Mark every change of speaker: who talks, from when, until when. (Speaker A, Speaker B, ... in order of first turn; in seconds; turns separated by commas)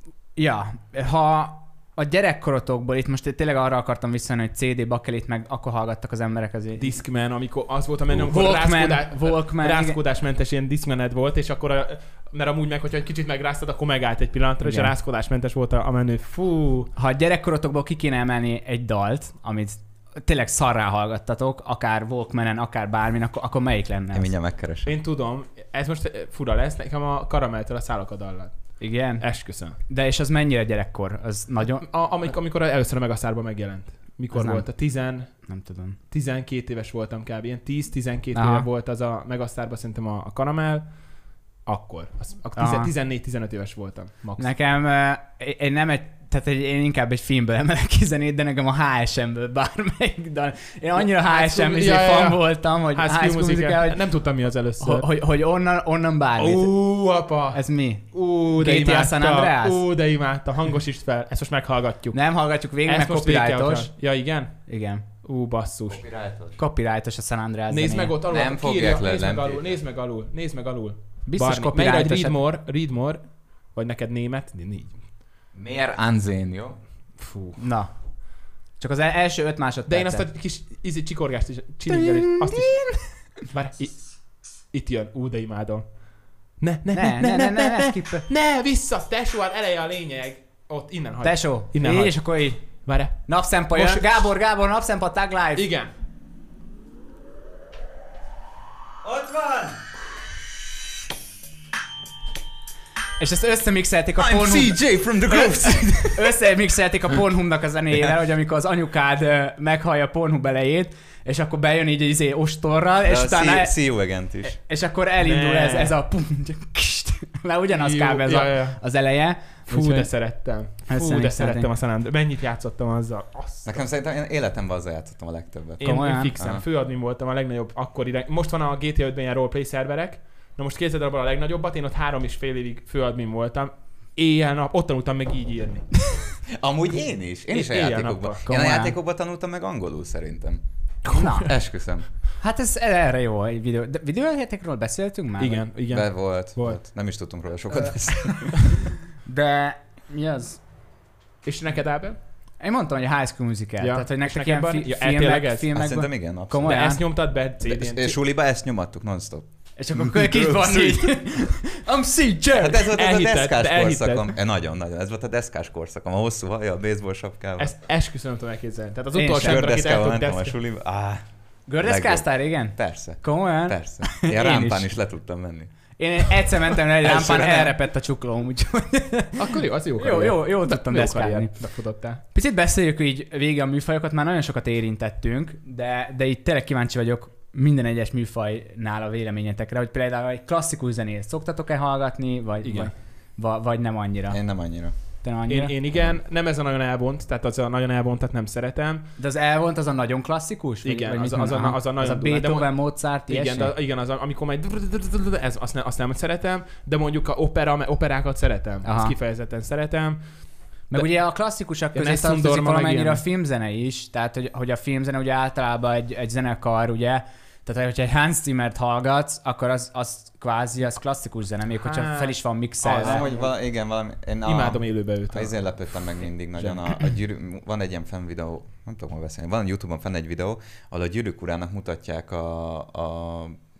Speaker A: 0.3-6.9, Speaker B: 6.8-16.9, Speaker A: 8.2-10.0, Speaker A: 14.6-14.9, Speaker A: 16.9-24.3, Speaker C: 24.1-24.9, Speaker B: 24.9-29.8, Speaker A: 28.8-29.3, Speaker A: 29.9-31.9, Speaker B: 31.8-35.3, Speaker A: 34.3-34.6, Speaker A: 35.5-36.0, Speaker B: 36.1-40.9, Speaker A: 38.3-38.7, Speaker B: 41.6-44.5, Speaker A: 42.5-42.9, Speaker A: 44.4-54.0, Speaker B: 51.0-55.1, Speaker A: 54.8-56.7, Speaker B: 56.4-57.6, Speaker A: 57.5-59.9, Speaker B: 58.1-62.2, Speaker A: 62.1-63.9, Speaker B: 62.8-64.6, Speaker A: 64.7-65.0, Speaker B: 65.2-66.0, Speaker C: 65.9-66.6, Speaker A: 66.6-68.1, Speaker B: 67.7-75.0, Speaker C: 68.3-69.8, Speaker A: 71.3-72.4, Speaker C: 75.5-76.8, Speaker B: 77.2-77.6, Speaker A: 77.6-77.9, Speaker A: 78.8-80.2, Speaker B: 79.9-82.8, Speaker A: 81.9-83.0, Speaker B: 83.4-84.0, Speaker B: 84.7-86.0, Speaker B: 86.6-94.0, Speaker A: 86.9-88.2, Speaker A: 91.2-92.7, Speaker A: 93.2-95.7, Speaker B: 95.5-95.9, Speaker C: 99.0-99.8, Speaker A: 103.2-113.8, Speaker C: 104.2-106.2, Speaker B: 104.3-105.9, Speaker C: 113.0-114.5, Speaker A: 114.4-120.1, Speaker B: 115.2-116.0, Speaker B: 117.7-118.8, Speaker B: 119.7-123.8, Speaker A: 120.9-121.7, Speaker C: 123.7-126.6, Speaker B: 125.8-135.8, Speaker A: 125.8-126.3, Speaker C: 136.5-140.6, Speaker B: 137.5-138.4, Speaker A: 138.4-138.9, Speaker B: 141.1-141.4, Speaker A: 141.1-141.5, Speaker C: 141.4-142.1, Speaker A: 142.4-145.6, Speaker B: 145.4-146.8, Speaker C: 145.9-148.7, Speaker A: 147.8-148.7, Speaker A: 149.2-150.6, Speaker B: 151.4-152.2, Speaker A: 152.6-157.0, Speaker B: 153.8-155.7, Speaker C: 155.7-156.7, Speaker B: 156.6-158.2, Speaker C: 157.6-159.4, Speaker A: 159.8-162.9, Speaker C: 159.9-161.0, Speaker C: 162.5-167.7, Speaker B: 162.9-164.3, Speaker B: 167.6-170.6, Speaker A: 169.1-169.7, Speaker C: 169.4-171.2, Speaker A: 171.7-174.9, Speaker C: 171.8-175.7, Speaker A: 176.0-181.5, Speaker C: 177.0-177.6, Speaker B: 179.4-182.2, Speaker A: 182.3-194.4, Speaker B: 192.6-192.9, Speaker C: 194.3-194.9, Speaker A: 195.2-195.7, Speaker B: 195.5-199.0, Speaker A: 199.2-203.7, Speaker B: 200.8-202.7, Speaker B: 203.3-210.2, Speaker A: 208.8-209.1, Speaker A: 210.9-223.2, Speaker B: 211.9-213.2, Speaker B: 221.8-223.5, Speaker C: 223.0-233.6, Speaker B: 224.4-225.6, Speaker B: 226.6-226.9